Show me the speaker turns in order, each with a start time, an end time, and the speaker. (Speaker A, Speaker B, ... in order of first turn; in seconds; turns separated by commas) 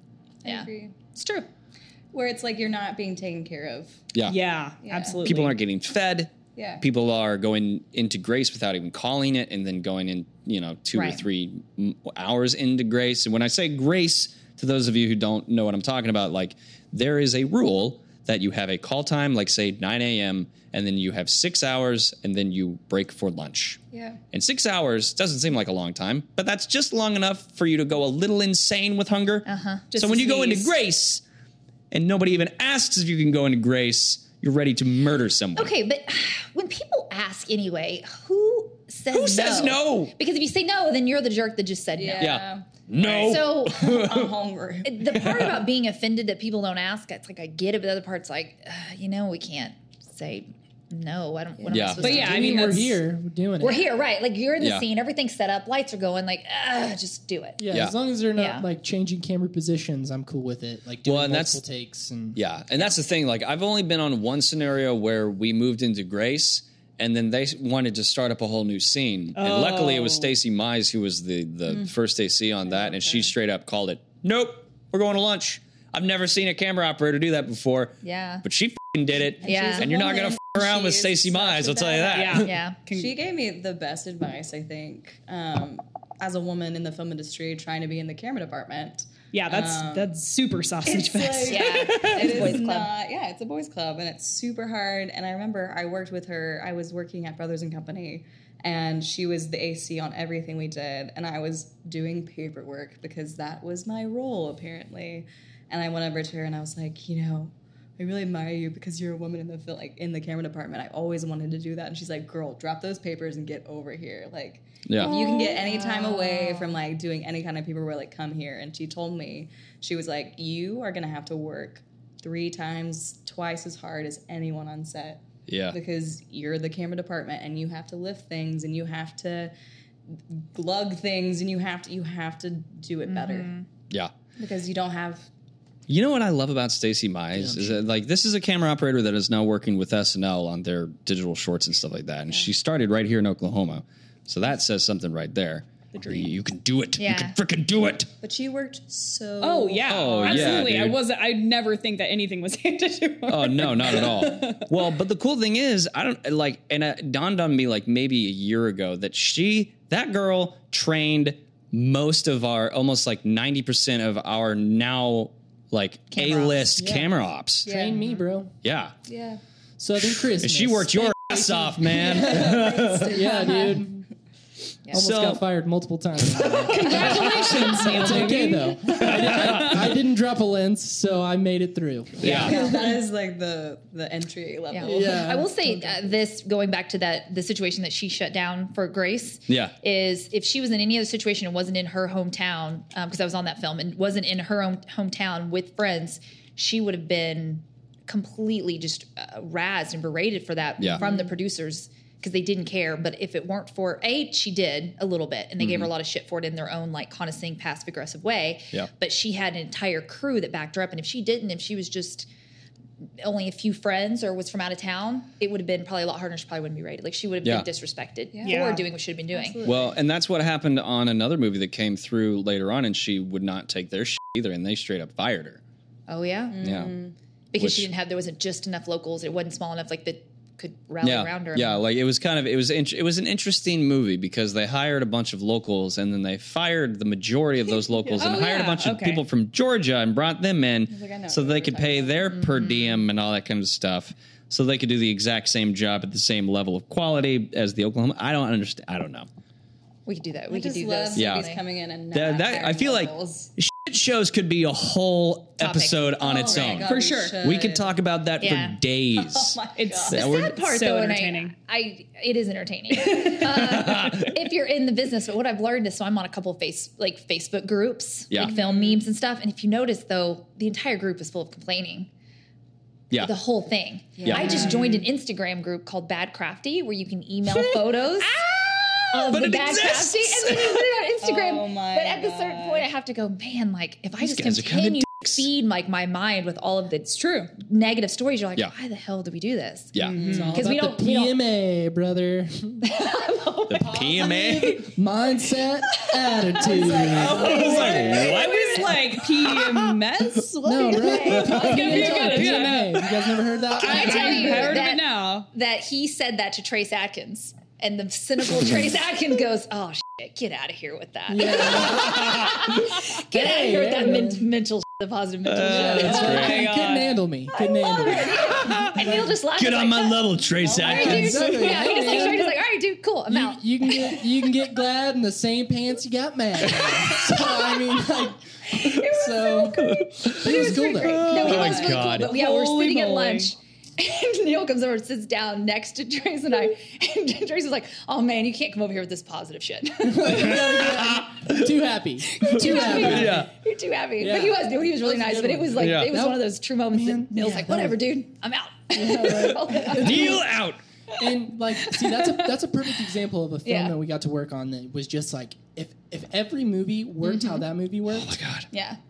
Speaker A: 0.4-0.9, Speaker B: 0.4-1.5, Speaker A: 2.1-4.0, Speaker C: 4.1-4.4, Speaker D: 4.2-5.6, Speaker A: 4.8-5.3, Speaker C: 5.2-23.8, Speaker A: 6.5-6.8, Speaker B: 10.9-11.2, Speaker A: 23.9-24.2, Speaker C: 24.3-31.2, Speaker B: 29.4-30.0, Speaker A: 30.2-30.6, Speaker C: 31.9-35.7, Speaker B: 35.5-42.4, Speaker C: 39.1-40.1, Speaker A: 41.9-45.0, Speaker C: 42.2-44.3, Speaker B: 43.2-44.0, Speaker B: 44.8-52.6, Speaker C: 45.1-45.6, Speaker A: 51.6-52.3, Speaker C: 51.7-52.1, Speaker E: 52.0-53.9, Speaker D: 52.0-53.0, Speaker B: 53.6-57.6, Speaker C: 54.6-54.8, Speaker E: 57.6-62.4, Speaker B: 58.3-58.6, Speaker C: 61.0-61.6, Speaker C: 62.3-82.5, Speaker D: 69.3-70.3, Speaker A: 72.8-73.2, Speaker B: 78.0-78.4, Speaker A: 79.4-90.1, Speaker B: 79.4-79.9, Speaker D: 82.1-83.1, Speaker B: 82.4-82.8, Speaker D: 89.3-92.6, Speaker A: 90.8-129.5, Speaker B: 91.5-92.9, Speaker C: 114.8-115.2, Speaker B: 115.0-116.8, Speaker D: 115.0-115.6, Speaker C: 125.5-125.8, Speaker A: 130.1-133.5, Speaker B: 133.1-133.7, Speaker A: 134.4-135.3, Speaker C: 135.9-148.1, Speaker E: 137.3-137.8, Speaker D: 145.9-146.3, Speaker B: 147.0-147.4, Speaker A: 148.2-150.9, Speaker D: 149.4-154.7, Speaker C: 149.9-151.0, Speaker C: 153.3-167.8, Speaker B: 166.1-166.7, Speaker E: 166.7-167.1, Speaker E: 167.6-168.5, Speaker A: 167.7-168.1, Speaker C: 168.6-168.9, Speaker A: 169.1-169.4, Speaker E: 169.8-174.0, Speaker C: 170.0-173.3, Speaker A: 172.0-173.9, Speaker E: 174.9-182.8, Speaker C: 174.9-175.4, Speaker C: 176.4-177.8, Speaker D: 176.4-179.9, Speaker A: 176.6-177.8, Speaker B: 176.8-178.3, Speaker C: 178.9-179.8, Speaker C: 182.2-182.7, Speaker A: 182.2-186.1, Speaker B: 184.7-212.3, Speaker E: 184.8-185.5, Speaker C: 189.5-189.7, Speaker C: 200.8-201.0, Speaker A: 201.0-201.3, Speaker C: 205.6-205.9, Speaker B: 213.2-219.6, Speaker A: 218.3-219.9, Speaker D: 218.4-218.9, Speaker C: 219.6-225.6, Speaker B: 226.1-226.7, Speaker A: 226.5-227.1, Speaker C: 226.6-226.9, Speaker B: 227.5-231.8, Speaker C: 227.6-227.9, Speaker C: 231.0-249.3, Speaker D: 238.1-239.2, Speaker A: 240.9-242.3, Speaker B: 250.1-251.6, Speaker A: 250.5-253.5, Speaker C: 251.1-251.5, Speaker C: 252.1-259.6, Speaker B: 255.6-256.7, Speaker A: 256.2-257.9, Speaker D: 256.8-257.4, Speaker B: 258.4-258.8, Speaker A: 259.1-260.1, Speaker D: 259.8-261.5, Speaker C: 260.1-260.6, Speaker B: 260.1-272.1, Speaker C: 263.2-264.4, Speaker A: 268.6-268.9, Speaker B: 273.1-278.4, Speaker C: 274.2-274.8, Speaker A: 274.2-275.1, Speaker D: 274.6-274.8, Speaker D: 278.5-279.0, Speaker B: 279.1-291.4, Speaker C: 279.2-281.0, Speaker A: 281.2-282.9, Speaker C: 284.2-285.5, Speaker D: 287.1-287.5, Speaker C: 289.9-290.2, Speaker D: 290.1-290.5, Speaker A: 290.1-290.7, Speaker E: 290.5-292.9, Speaker B: 292.8-294.3, Speaker C: 293.7-294.9, Speaker E: 293.9-297.7, Speaker A: 296.6-298.8, Speaker D: 297.1-303.1, Speaker C: 297.1-299.9, Speaker B: 297.4-298.9, Speaker E: 300.6-304.8, Speaker B: 300.7-302.8, Speaker D: 303.7-305.5, Speaker B: 303.8-316.4, Speaker E: 311.3-314.4, Speaker C: 312.0-312.7, Speaker C: 315.4-316.7, Speaker E: 315.7-319.4, Speaker D: 315.9-317.2, Speaker B: 317.5-324.5, Speaker C: 318.3-321.7, Speaker A: 320.6-321.4, Speaker E: 320.8-322.6, Speaker E: 323.3-331.4, Speaker C: 326.7-327.2, Speaker B: 326.8-328.0, Speaker B: 328.7-341.0, Speaker C: 329.7-332.3, Speaker A: 331.4-332.0, Speaker D: 331.4-333.5, Speaker E: 340.0-343.5, Speaker C: 340.4-341.7, Speaker B: 342.4-350.4, Speaker C: 342.4-343.5, Speaker E: 344.2-348.0, Speaker C: 345.8-346.1, Speaker E: 348.9-350.4, Speaker C: 349.8-350.8, Speaker E: 351.1-358.4, Speaker B: 351.8-352.3, Speaker B: 353.6-354.0, Speaker B: 357.2-357.6, Speaker C: 358.1-358.7, Speaker B: 358.7-359.0